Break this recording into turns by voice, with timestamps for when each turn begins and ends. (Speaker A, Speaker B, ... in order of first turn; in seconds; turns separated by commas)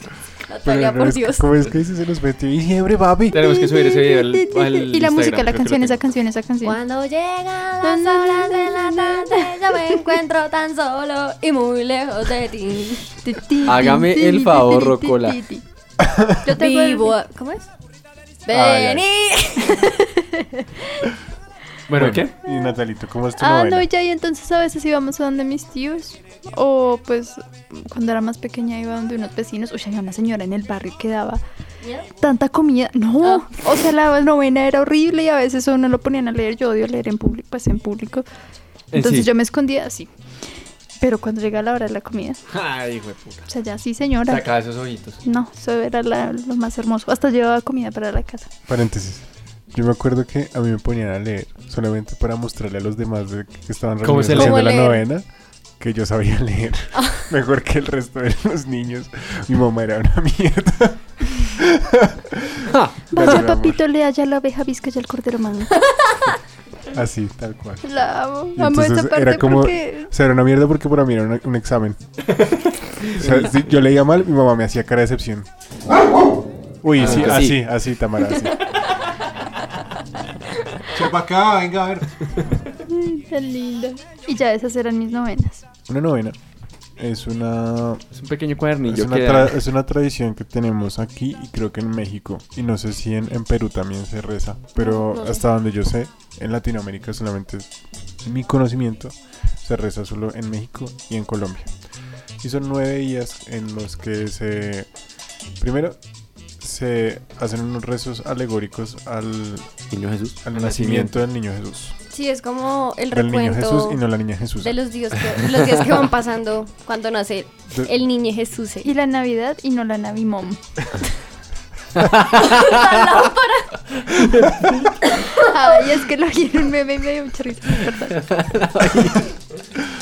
Speaker A: 0.5-1.5, Speaker B: 0.7-3.4, Speaker C: 3.3-6.0, Speaker D: 3.4-6.8, Speaker A: 6.6-13.1, Speaker D: 7.8-10.1, Speaker D: 13.2-15.6, Speaker E: 13.6-15.4, Speaker B: 16.0-16.4, Speaker D: 16.4-17.1, Speaker A: 16.5-17.7, Speaker A: 18.5-20.1, Speaker B: 18.5-19.0, Speaker D: 20.4-20.7, Speaker C: 21.9-22.3, Speaker B: 22.0-23.9, Speaker D: 23.4-31.4, Speaker D: 32.2-38.3, Speaker A: 33.2-33.5, Speaker C: 38.9-39.3, Speaker D: 38.9-40.1, Speaker D: 41.0-42.4, Speaker C: 42.5-43.5, Speaker D: 43.5-44.5, Speaker C: 44.3-45.2, Speaker D: 45.2-48.5, Speaker B: 48.7-55.2, Speaker C: 54.0-54.6, Speaker A: 54.3-55.0, Speaker B: 55.8-63.8, Speaker A: 57.0-57.2, Speaker E: 62.7-63.4, Speaker D: 63.1-66.1, Speaker B: 66.9-67.9, Speaker D: 67.8-70.1, Speaker B: 68.5-72.0, Speaker C: 72.5-73.5, Speaker B: 73.1-75.5, Speaker B: 76.8-78.7, Speaker C: 77.0-77.5, Speaker E: 77.0-77.6, Speaker B: 80.9-82.2, Speaker D: 82.9-85.7, Speaker B: 85.9-86.4, Speaker B: 87.0-88.0, Speaker C: 88.1-89.6, Speaker B: 88.9-97.7, Speaker A: 94.8-95.4, Speaker B: 98.2-101.7, Speaker B: 102.4-104.9, Speaker B: 105.6-106.0, Speaker B: 106.6-109.7, Speaker E: 109.9-110.4, Speaker B: 110.4-112.0, Speaker C: 110.5-111.1, Speaker A: 112.1-114.0, Speaker B: 113.1-114.8, Speaker A: 114.6-118.9, Speaker D: 118.8-120.6, Speaker A: 122.4-123.7, Speaker D: 125.1-128.3, Speaker E: 128.3-129.4